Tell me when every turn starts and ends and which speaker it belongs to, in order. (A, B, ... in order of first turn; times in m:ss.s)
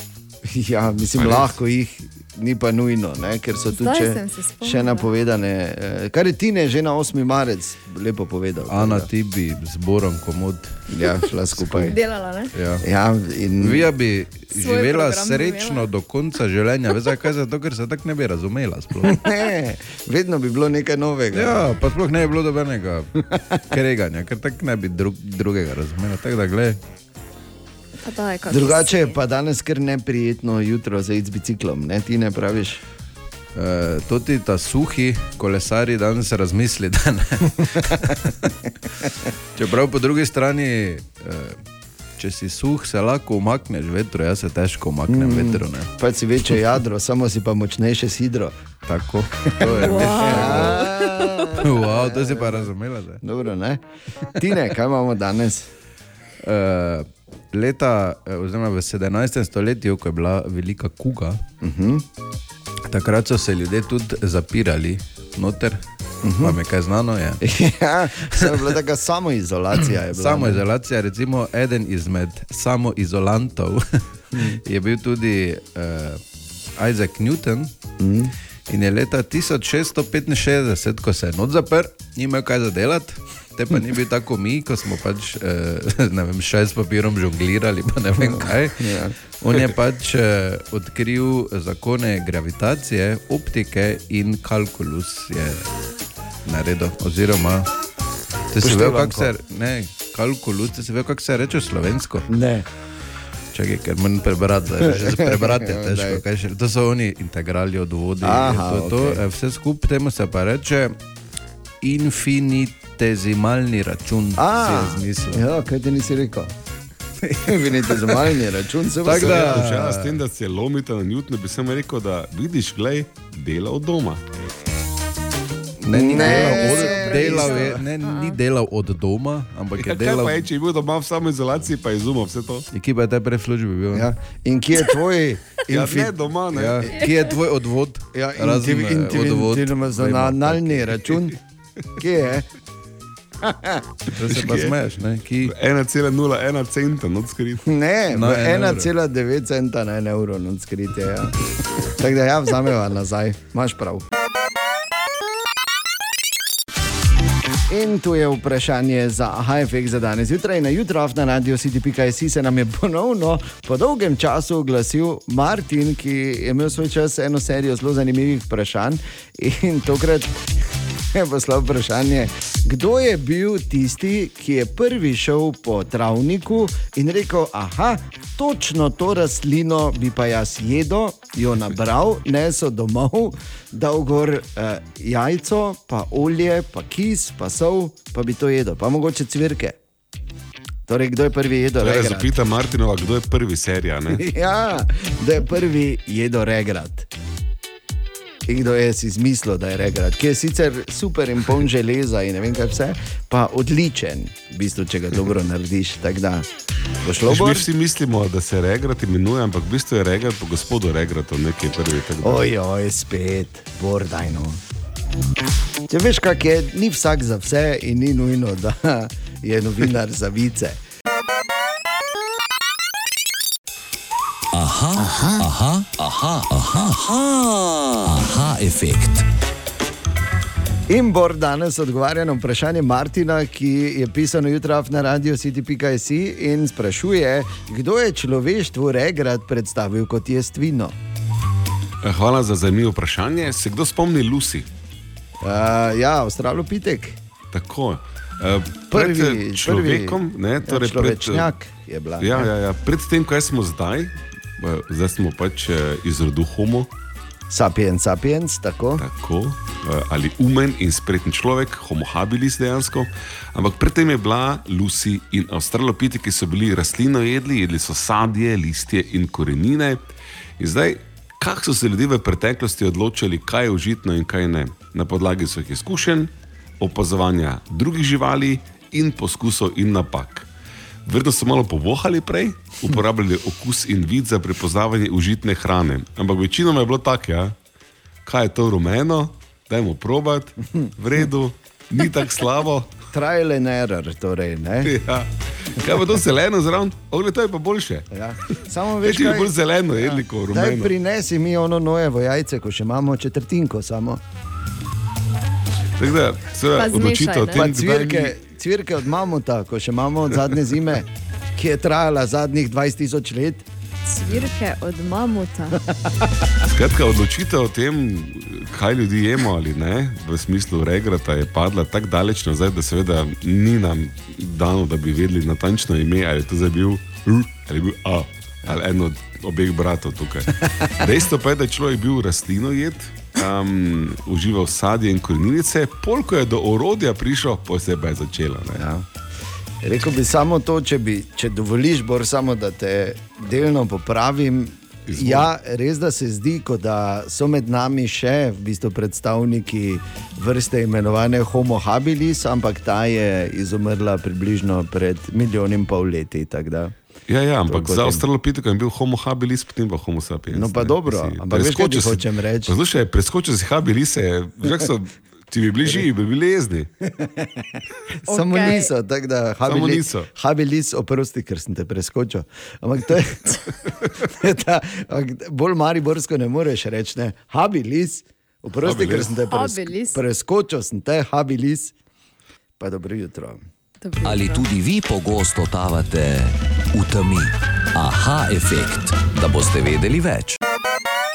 0:00.4-0:09.1 A
0:01.1-0:01.5 B
0:03.7-0:05.1 C
0:08.7-0:10.8 D
0:10.9-0:12.0 A
0:11.6-0:11.8 D
0:11.7-0:12.5 C
0:12.5-0:12.8 D
0:12.8-0:13.9 A
0:13.6-0:19.2 D
0:14.5-0:15.9 C
0:19.1-0:21.6 A
0:21.3-0:23.1 D
0:23.7-0:26.8 D
0:28.0-0:29.2 C
0:28.5-0:32.8 A
0:33.5-0:38.5 D
0:39.6-0:41.6 D
0:42.2-0:45.9 D
0:45.1-0:48.6 A
0:48.8-0:50.8 D
0:49.5-0:52.7 A
0:49.7-0:51.6 C
0:51.6-0:53.2 D
0:53.2-0:53.8 A
0:54.4-0:55.7 A
0:56.4-1:01.4 D
1:01.6-1:02.0 A
1:02.8-1:05.8 D
1:06.2-1:06.6 A
1:06.4-1:07.4 D
1:07.4-1:10.6 A
1:10.1-1:16.2 D
1:14.3-1:14.6 A
1:16.8-1:17.7 D
1:18.0-1:18.3 A
1:18.7-1:35.7 D
1:28.2-1:29.1 A
1:36.4-1:37.7 D
1:38.5-1:42.3 D
1:38.6-1:39.3 A
1:42.3-1:42.6 A
1:43.5-1:51.0 D
1:44.8-1:46.2 A
1:48.2-1:49.2 A
1:51.8-1:55.4 D
1:54.4-1:56.5 A
1:57.2-2:00.0 A
1:59.0-2:00.1 D
1:59.1-2:04.2 B
2:05.8-2:07.8 A
2:05.9-2:10.4 D
2:06.1-2:08.4 C
2:09.8-2:12.6 B
2:12.7-2:14.1 D
2:13.9-2:16.1 A
2:15.7-2:16.9 B
2:16.5-2:20.9 D
2:18.1-2:21.4 A
2:22.0-2:22.5 A
2:23.4-2:23.9 A
2:24.1-2:25.5 D
2:24.3-2:24.7 B
2:25.4-2:27.6 B
2:27.6-2:34.0 A
2:28.1-2:28.9 D
2:37.7-2:50.5 A
2:51.1-3:09.8 A
3:10.9-3:12.3 A
3:11.8-3:14.2 B
3:14.1-3:17.1 A
3:18.5-3:26.5 A
3:27.0-3:27.7 A
3:27.2-3:32.4 B
3:32.2-3:34.6 A
3:35.9-3:40.8 A
3:44.5-3:49.2 E
3:50.9-4:01.0 A
4:02.0-4:04.7 B
4:05.4-4:07.2 A
4:07.5-4:11.5 B
4:08.9-4:12.5 A
4:12.2-4:16.9 B
4:17.5-4:19.0 A
4:19.0-4:30.0 B
4:30.6-4:40.5 B
4:41.0-4:47.5 B
4:48.2-4:52.9 B
4:53.1-4:54.9 A
4:54.8-4:58.1 B
4:58.1-4:59.5 A
4:59.0-5:00.9 B
5:00.5-5:04.2 A
5:06.0-5:08.3 B
5:06.7-5:07.7 C
5:07.5-5:13.6 A
5:14.0-5:15.8 C
5:16.7-5:38.9 B
5:38.7-5:39.1 A
5:39.8-5:56.9 A
5:45.1-5:45.5 B
5:57.3-6:06.9 B
5:57.7-5:58.2 A
6:00.5-6:02.8 A
6:07.1-6:07.7 A
6:08.3-6:21.9 A
6:08.3-6:08.9 C
6:09.6-6:10.3 B
6:18.8-6:19.4 B
6:19.5-6:20.2 C
6:22.8-6:23.6 A
6:24.0-6:24.6 C
6:24.2-6:30.6 E